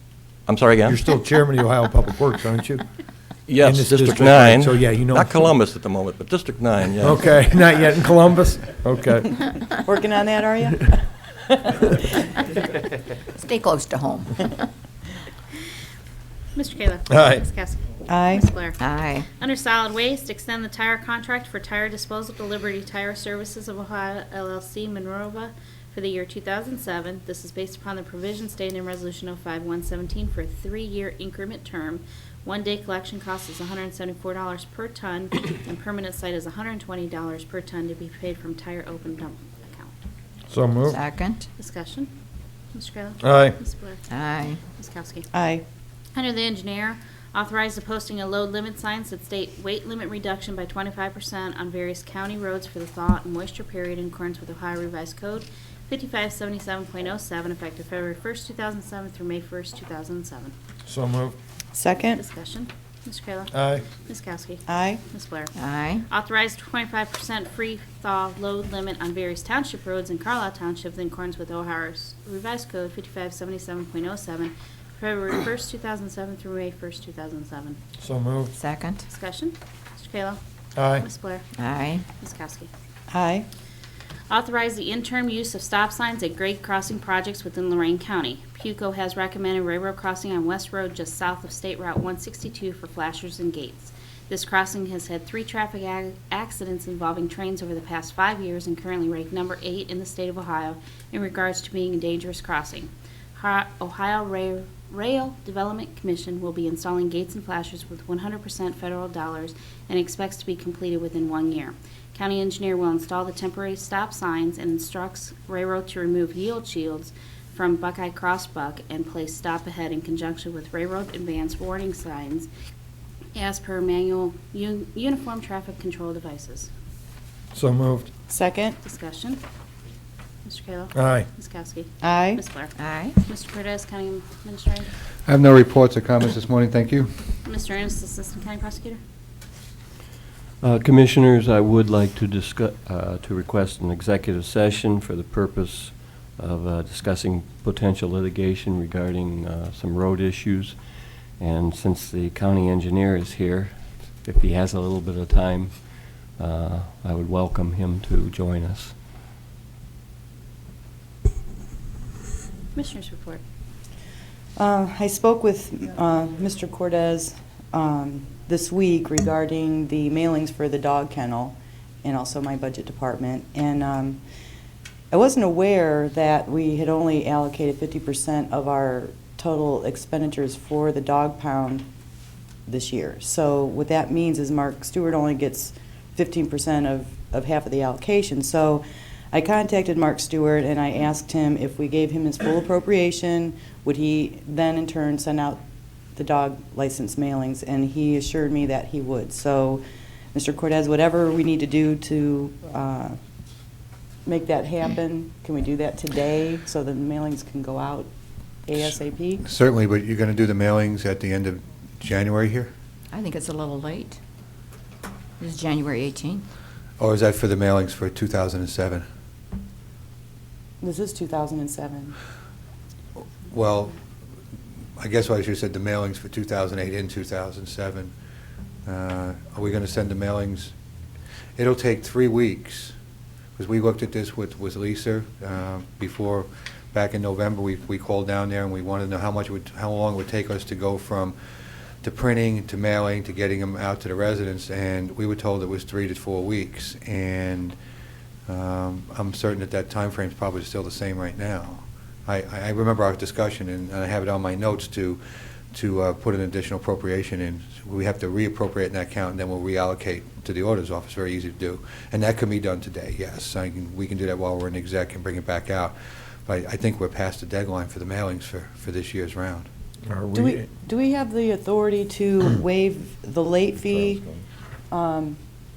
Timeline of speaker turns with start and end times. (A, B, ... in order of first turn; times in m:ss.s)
0:00.4-0:01.0 A
0:00.9-0:02.8 B
0:03.5-0:07.6 A
0:03.6-0:05.5 B
0:07.0-0:09.4 B
0:09.8-0:12.0 C
0:13.3-0:14.6 D
0:16.6-0:40.0 E
0:17.1-0:17.4 B
0:18.1-0:18.5 C
0:18.8-0:19.2 D
0:40.5-0:41.0 B
0:40.9-0:41.4 D
0:41.6-0:42.1 E
0:42.7-0:44.0 E
0:43.2-0:43.6 B
0:44.1-0:44.6 D
0:44.5-0:45.3 E
0:45.3-0:45.6 C
0:46.1-1:00.5 E
1:00.8-1:01.4 B
1:01.7-1:02.2 C
1:02.2-1:17.8 E
1:03.5-1:03.9 B
1:04.7-1:05.0 C
1:05.6-1:06.0 D
1:18.0-1:18.6 B
1:18.6-1:19.0 D
1:19.0-1:20.4 E
1:20.8-1:21.1 B
1:20.9-1:21.5 E
1:21.6-1:22.0 D
1:22.2-1:22.7 E
1:23.1-1:23.5 C
1:24.3-2:02.5 E
2:03.4-2:06.7 E
2:07.5-2:08.1 B
2:08.3-2:08.8 C
2:08.8-2:09.4 E
2:10.4-2:14.9 E
2:10.9-2:11.3 B
2:12.0-2:12.4 C
2:12.8-2:13.1 D
2:15.3-2:17.1 F
2:17.4-2:19.0 E
2:20.6-2:39.0 G
2:42.7-2:43.4 E
2:44.6-2:54.2 C
2:55.1-3:01.9 C
3:02.7-3:15.6 C
3:16.1-3:19.8 C
3:20.3-3:23.2 C
3:24.2-3:28.1 C
3:28.7-3:29.4 C
3:29.4-3:32.7 F
3:33.1-3:34.2 D
3:35.4-3:36.4 D
3:37.0-3:39.0 F
3:40.8-3:42.1 C
3:43.4-3:44.0 F
3:45.0-3:48.1 F
3:48.8-3:50.7 F
3:51.6-3:52.9 F
3:53.6-4:01.4 F
4:02.0-4:07.7 F
4:08.5-4:15.2 F
4:15.7-4:29.7 F
4:30.1-4:30.7 B
4:30.3-4:34.2 C
4:34.9-4:35.4 C